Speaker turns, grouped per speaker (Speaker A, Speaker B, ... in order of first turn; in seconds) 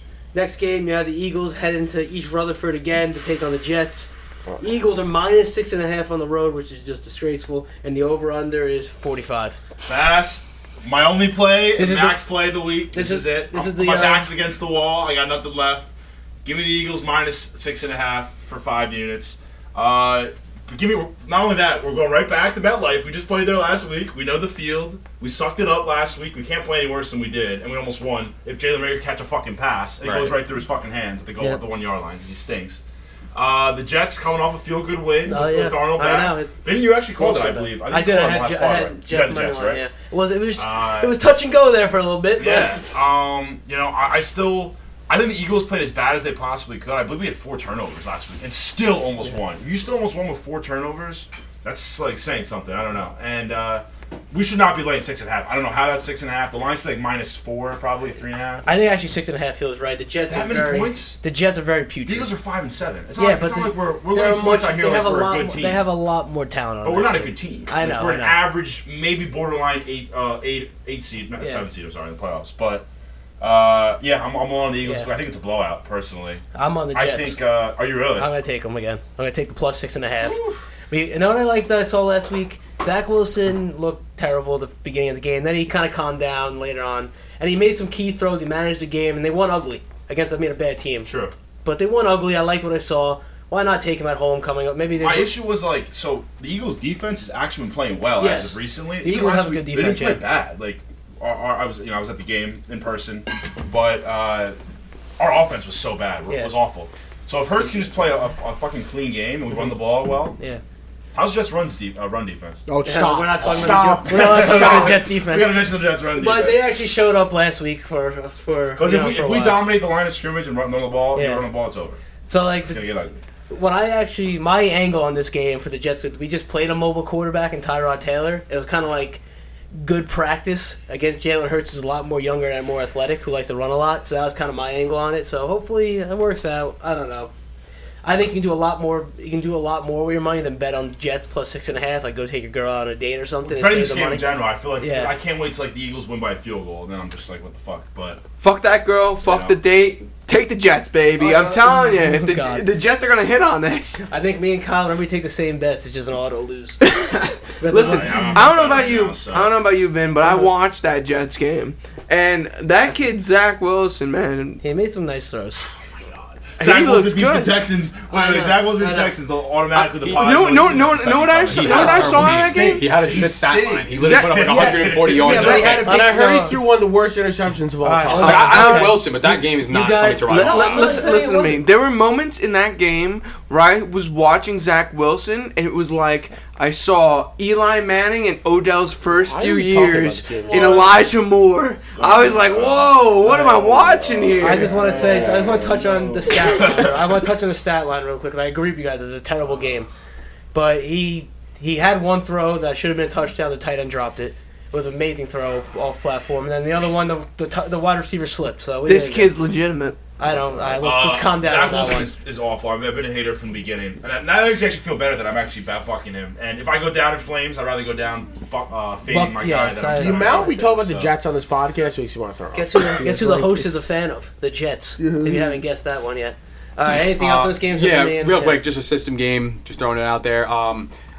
Speaker A: 0.3-9.6, 11.8-12.2, 12.9-14.3, 35.2-43.0, 58.6-62.3, 63.2-68.4, 71.4-71.6, 76.5-77.4, 78.2-91.1, 91.6-95.3, 98.2-100.2, 106.3-106.5, 112.8-119.6, 121.1-121.4, 122.2-122.8, 123.5-129.2, 129.7-137.3, 138.0-144.2, 144.8-145.1, 151.2-152.7, 154.1-156.8, 157.6-158.8, 164.6-165.7, 168.1-169.2, 171.7-172.9, 174.6-176.6, 177.8-181.6, 194.4-199.9, 200.5-209.3, 210.2-212.1, 219.1-220.6, 222.5-228.6
Speaker B: 9.8-32.8, 33.3-39.8, 40.6-41.1, 42.4-58.7, 60.3-61.2, 62.1-65.8, 66.8-72.8, 73.4-76.4, 76.9-78.3, 91.0-91.3, 95.0-104.5, 105.2-110.4, 111.1-112.6, 113.4-116.7, 118.8-122.0, 122.6-123.2, 143.4-148.2, 149.2-149.6, 157.8-159.5, 166.0-175.8, 190.5-191.0, 191.9-193.1, 194.8-196.9, 210.8-221.1
Speaker C: 30.0-30.4, 170.0-170.3, 171.5-176.2, 178.1-181.1, 227.1-230.9
Speaker D: 112.7-115.0, 175.8-178.6, 189.2-190.9, 193.2-196.4, 210.2-210.7, 219.9-223.9, 225.0-225.6
Speaker E: 148.4-154.1, 156.8-164.6, 166.6-167.6, 169.7-173.0, 173.9-175.8, 178.1-179.1, 180.3-194.8, 208.8-210.0